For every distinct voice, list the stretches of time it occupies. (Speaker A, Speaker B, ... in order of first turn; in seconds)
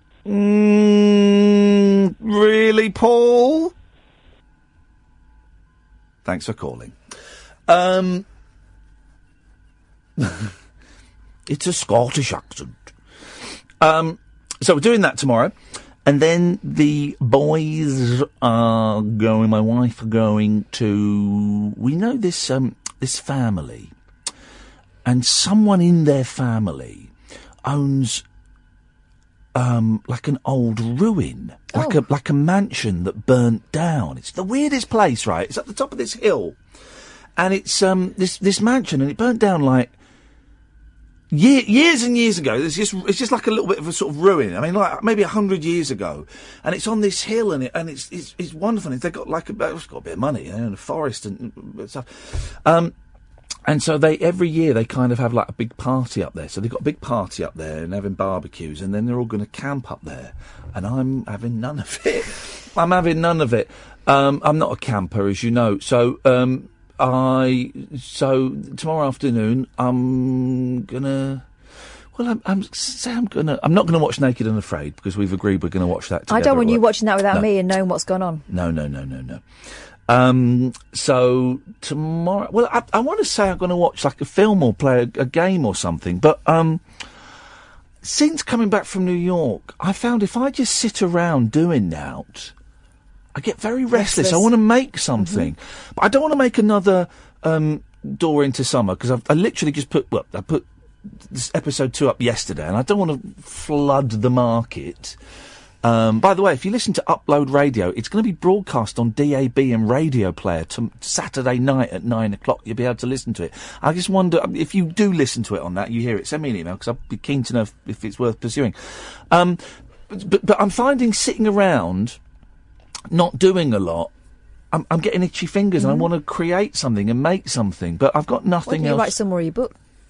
Speaker A: 0.3-3.7, 6.2-7.0, 7.7-8.2, 10.2-10.5, 11.5-12.8, 13.8-15.5, 16.1-23.9, 25.1-27.1, 27.7-28.2, 29.6-36.6, 37.4-39.9, 41.3-52.9, 53.7-71.5, 72.2-77.5, 78.5-79.4, 80.1-86.8, 88.0-92.5, 93.3-100.7, 101.3-105.2, 105.8-118.8, 119.3-122.2, 123.1-124.1, 124.7-129.1
Speaker B: 31.7-32.0, 76.3-78.5, 93.9-94.5, 95.2-95.5, 125.8-126.1, 128.7-129.8